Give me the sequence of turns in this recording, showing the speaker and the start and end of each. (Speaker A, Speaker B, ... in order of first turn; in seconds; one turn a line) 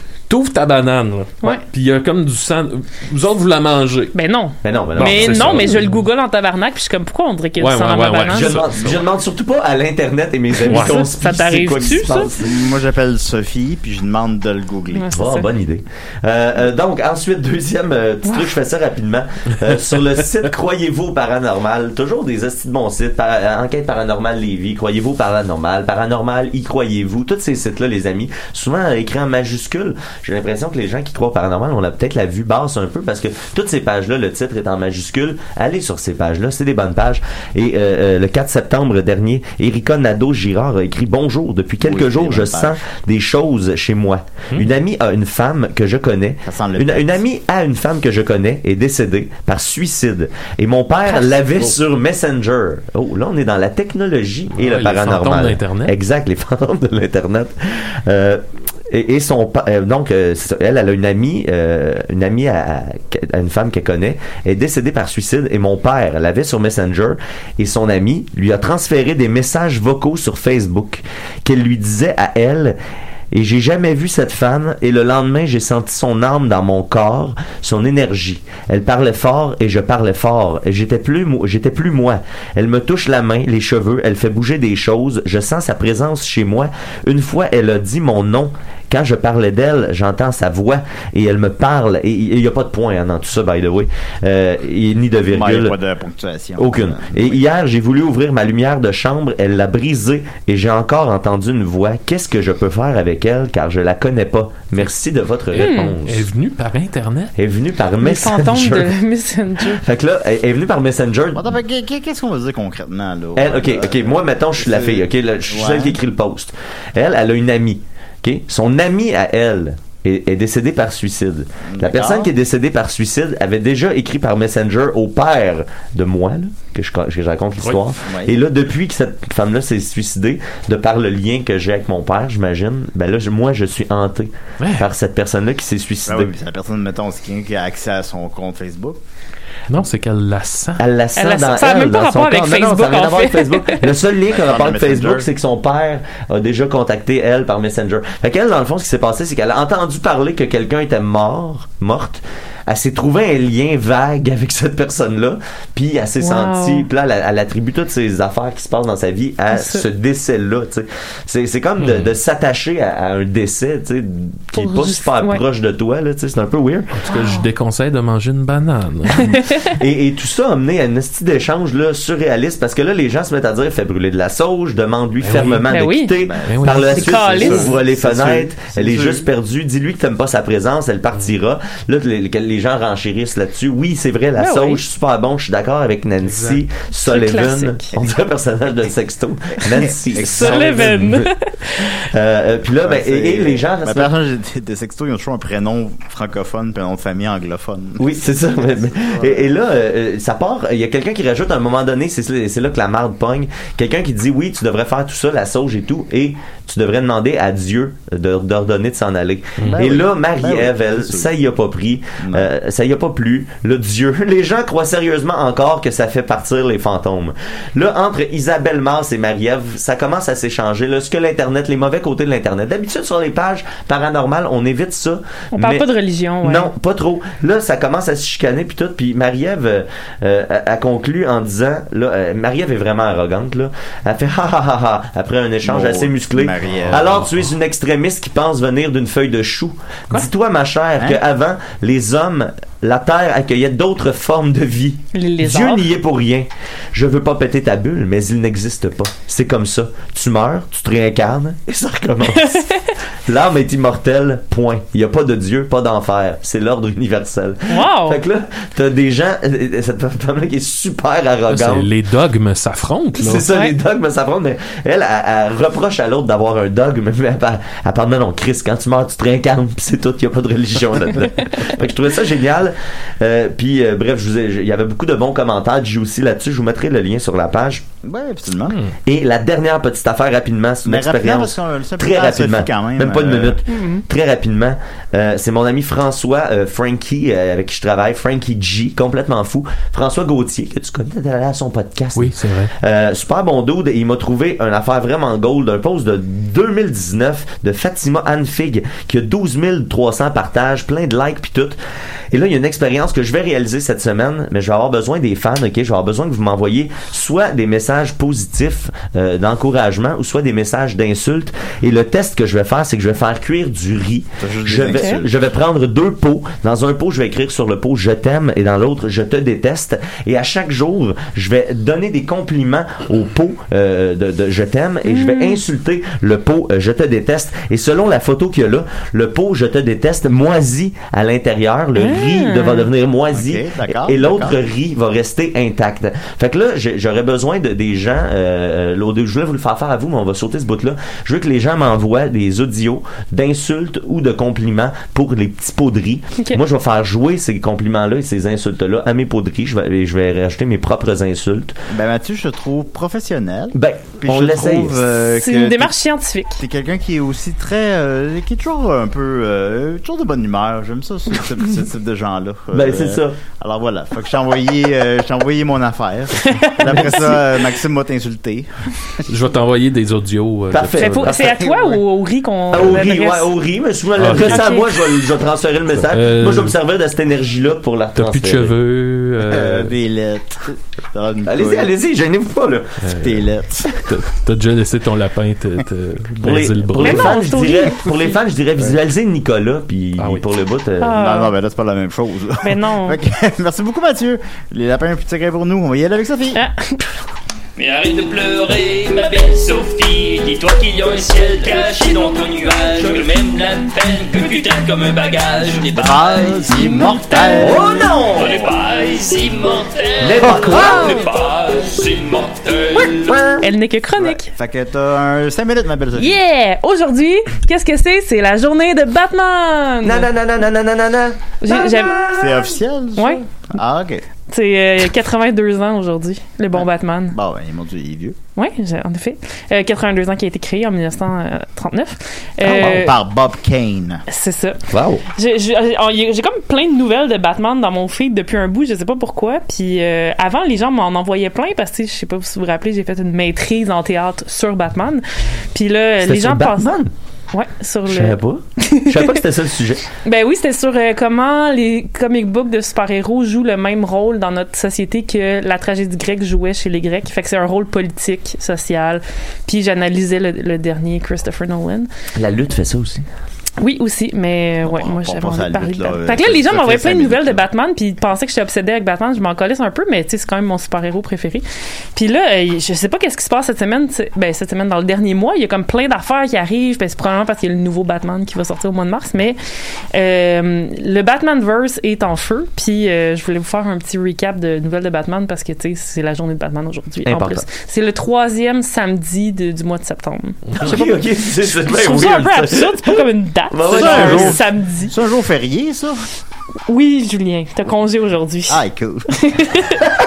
Speaker A: 0.3-4.2
Speaker B: 4.1-8.6
Speaker C: 4.6-5.8
Speaker A: 5.0-6.0
Speaker A: 7.6-9.1
Speaker C: 8.3-12.5
Speaker B: 10.6-12.3
Speaker A: 10.7-11.0
Speaker D: 12.4-15.1
Speaker B: 14.9-15.5
Speaker C: 15.1-72.8
Speaker B: 18.3-18.5
Speaker D: 41.8-42.8
Speaker D: 46.5-47.2
Speaker A: 54.5-56.0
Speaker C: 73.3-95.8
Speaker D: 95.3-97.4
Speaker C: 96.6-106.3
Speaker A: 105.5-107.3
Speaker B: 105.5-106.0
Speaker C: 107.4-108.9
Speaker B: 108.0-109.8
Speaker C: 109.7-111.5
Speaker D: 111.3-116.0
Speaker C: 113.4-136.3
Speaker D: 121.7-122.3
Speaker A: 127.6-127.8
Speaker D: 128.0-128.4
Speaker A: 134.6-134.9
Speaker D: 136.1-139.0
Speaker A: 139.7-140.8
Speaker C: 140.8-167.0
Speaker B: 141.2-143.9
Speaker D: 144.2-145.3
Speaker B: 156.2-156.9
Speaker B: 159.5-159.9
Speaker A: 161.8-162.1
Speaker B: 164.6-165.4
Speaker A: 167.0-169.4
Speaker B: 167.1-167.4
Speaker B: 169.2-169.7
Speaker C: 169.7-191.2
Speaker A: 175.2-175.6
Speaker B: 175.7-176.1
Speaker D: 176.2-179.3
Speaker A: 176.5-177.7
Speaker B: 176.9-177.7
Speaker B: 184.4-184.8
Speaker A: 186.3-186.6
Speaker B: 187.0-187.9
Speaker D: 189.8-190.6
Speaker B: 190.2-191.9
Speaker A: 190.6-191.2
Speaker C: 192.0-194.1
Speaker D: 192.8-199.6
Speaker C: 198.0-225.9
Speaker D: 209.7-211.3
Speaker D: 212.2-212.5
Speaker B: 225.5-226.7
Speaker C: 226.4-261.9
Speaker D: 235.6-237.2
Speaker A: 236.7-237.4
Speaker B: 245.1-245.9
Speaker B: 252.3-252.9
Speaker B: 257.7-258.2
Speaker A: 261.5-263.5
Speaker C: 263.2-277.8
Speaker D: 278.0-278.9
Speaker C: 279.1-301.8
Speaker D: 280.8-283.6
Speaker B: 283.7-284.1
Speaker A: 292.1-292.7
Speaker C: 302.3-351.8
Speaker D: 314.4-315.4
Speaker B: 314.9-315.2
Speaker B: 325.1-325.6
Speaker B: 332.0-332.9
Speaker D: 333.3-334.6
Speaker D: 351.9-355.9
Speaker C: 353.7-355.1
Speaker B: 355.3-356.6
Speaker D: 356.6-369.2
Speaker C: 362.7-363.4
Speaker B: 366.4-367.6
Speaker A: 369.3-371.3
Speaker C: 370.7-372.0
Speaker B: 370.9-373.5
Speaker C: 372.7-378.8
Speaker A: 374.2-374.6
Speaker B: 374.4-375.1
Speaker A: 375.9-376.8
Speaker A: 378.1-380.0
Speaker D: 379.4-381.9
Speaker C: 381.5-383.0
Speaker A: 383.0-383.4
Speaker D: 383.2-383.9
Speaker A: 384.0-387.3
Speaker C: 386.4-391.2
Speaker B: 387.0-388.1
Speaker A: 390.2-390.4
Speaker B: 391.0-391.5
Speaker D: 391.1-396.6
Speaker B: 392.6-393.2
Speaker B: 396.5-397.1
Speaker E: 397.8-413.4
Speaker D: 405.9-407.9
Speaker B: 406.7-407.8
Speaker C: 407.6-408.7
Speaker C: 410.2-411.2
Speaker B: 410.5-411.2
Speaker C: 412.9-413.7
Speaker B: 413.6-414.5
Speaker D: 414.2-416.4
Speaker B: 416.1-420.3
Speaker C: 420.0-422.7
Speaker B: 421.6-422.2
Speaker D: 422.3-424.2
Speaker B: 423.2-423.4
Speaker B: 424.5-427.4
Speaker D: 426.8-428.4
Speaker B: 428.6-433.2
Speaker D: 432.6-434.2
Speaker C: 432.8-433.0
Speaker B: 434.3-434.8
Speaker C: 434.9-435.2
Speaker B: 435.4-446.9
Speaker C: 446.2-447.1
Speaker B: 447.5-449.4
Speaker C: 448.1-450.1
Speaker B: 450.2-462.1
Speaker C: 462.4-463.2
Speaker B: 463.8-479.6
Speaker D: 464.9-467.7
Speaker B: 480.1-491.1
Speaker C: 487.2-487.7
Speaker C: 490.8-494.6
Speaker B: 491.6-495.1
Speaker D: 493.9-496.3
Speaker B: 496.9-500.2
Speaker D: 498.7-500.0